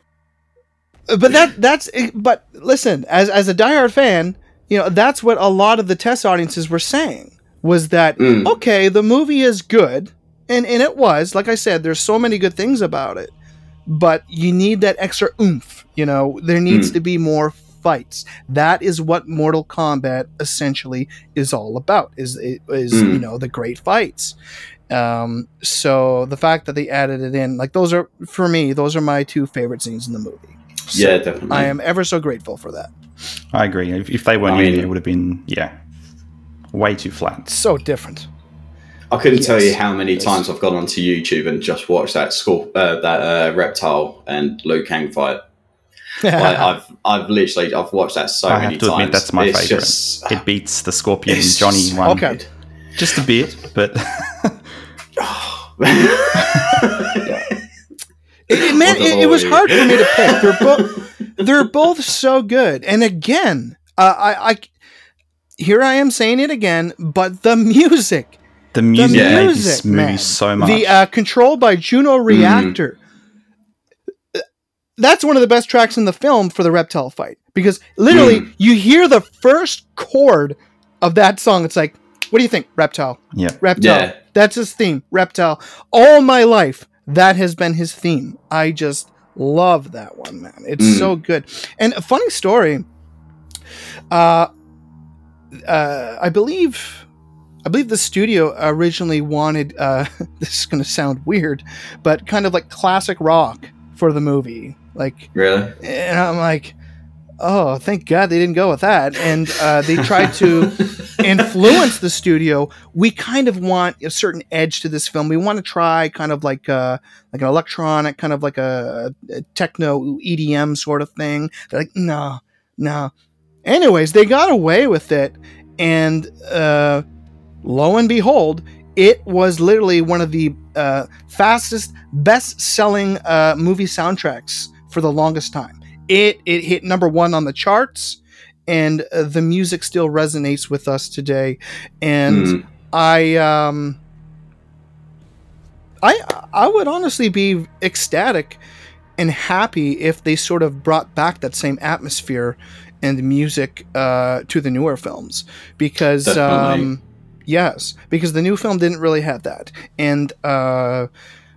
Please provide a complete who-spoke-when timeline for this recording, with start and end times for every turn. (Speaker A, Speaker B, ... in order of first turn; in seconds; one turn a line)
Speaker A: 1.1-13.3
Speaker B: 8.2-8.5
Speaker A: 13.9-24.3
Speaker B: 16.7-16.9
Speaker B: 22.9-23.2
Speaker A: 24.9-32.9
Speaker B: 30.9-31.7
Speaker C: 33.5-35.8
Speaker B: 34.4-34.9
Speaker C: 36.7-37.5
Speaker A: 37.5-38.3
Speaker B: 39.1-45.4
Speaker A: 39.3-40.4
Speaker A: 46.2-46.7
Speaker B: 46.4-50.4
Speaker C: 48.5-52.3
Speaker B: 51.3-52.4
Speaker A: 52.0-52.4
Speaker C: 53.0-54.6
Speaker B: 55.2-57.5
Speaker C: 56.4-56.8
Speaker A: 58.5-64.7
Speaker B: 58.6-61.0
Speaker A: 65.6-68.4
Speaker C: 68.7-71.0
Speaker A: 68.9-73.0
Speaker B: 69.1-69.5
Speaker B: 72.3-72.8
Speaker A: 75.0-92.8
Speaker B: 78.1-78.4
Speaker B: 83.8-84.1
Speaker B: 90.8-91.1
Speaker A: 94.1-94.5
Speaker A: 95.7-97.0
Speaker A: 97.7-106.7
Speaker B: 105.3-105.7
Speaker A: 107.4-123.1
Speaker B: 110.0-110.7
Speaker A: 123.6-127.0
Speaker A: 127.6-144.0
Speaker B: 142.3-142.6
Speaker A: 146.0-148.6
Speaker A: 149.2-161.1
Speaker B: 156.2-156.9